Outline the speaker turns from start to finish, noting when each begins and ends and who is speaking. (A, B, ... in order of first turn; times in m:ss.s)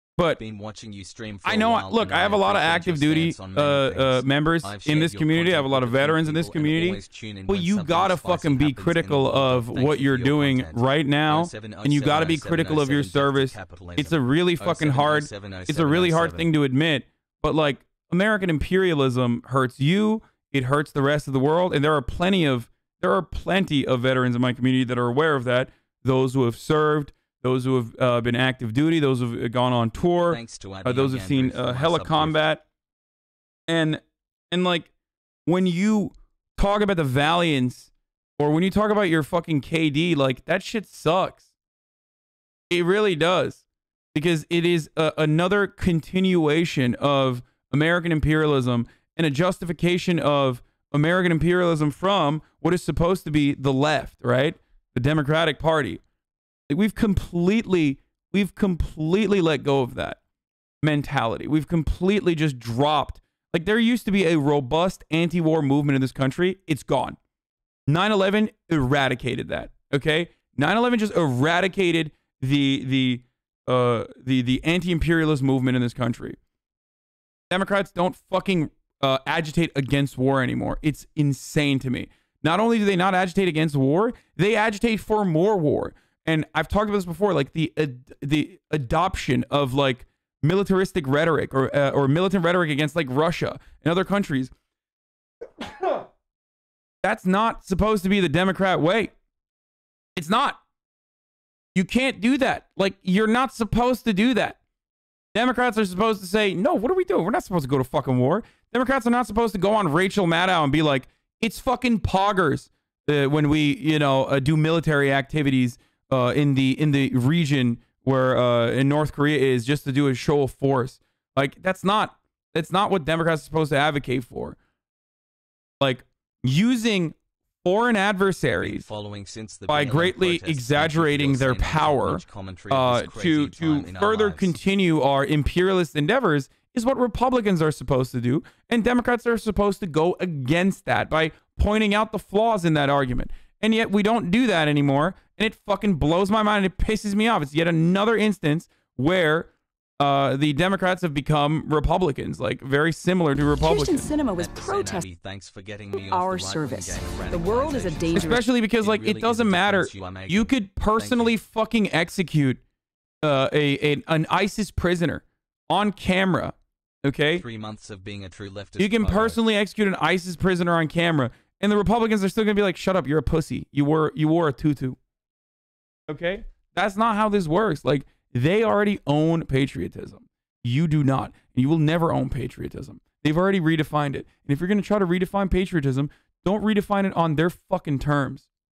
0:00.4-0:16.5 A
0:01.4-0:32.6 B
0:30.3-0:32.4 A
0:33.7-0:34.9 B
0:35.4-0:41.4 B
0:42.7-0:43.6 B
0:44.1-0:56.0 B
0:56.7-1:00.2 B
1:00.8-1:07.2 B
1:07.9-1:16.4 B
1:17.5-1:34.5 B
1:37.0-1:39.1 B
1:40.1-1:40.6 B
1:41.7-1:44.6 B
1:45.3-2:04.6 B
2:05.8-2:08.9 B
2:08.6-2:14.6 A
2:09.7-2:34.1 B
2:33.6-2:35.1 C
2:34.4-2:41.4 A
2:36.0-2:38.4 C
2:38.1-2:42.6 B
2:43.2-2:47.4 B
2:47.4-2:49.4 A
2:48.8-2:55.0 B
2:56.1-3:08.4 B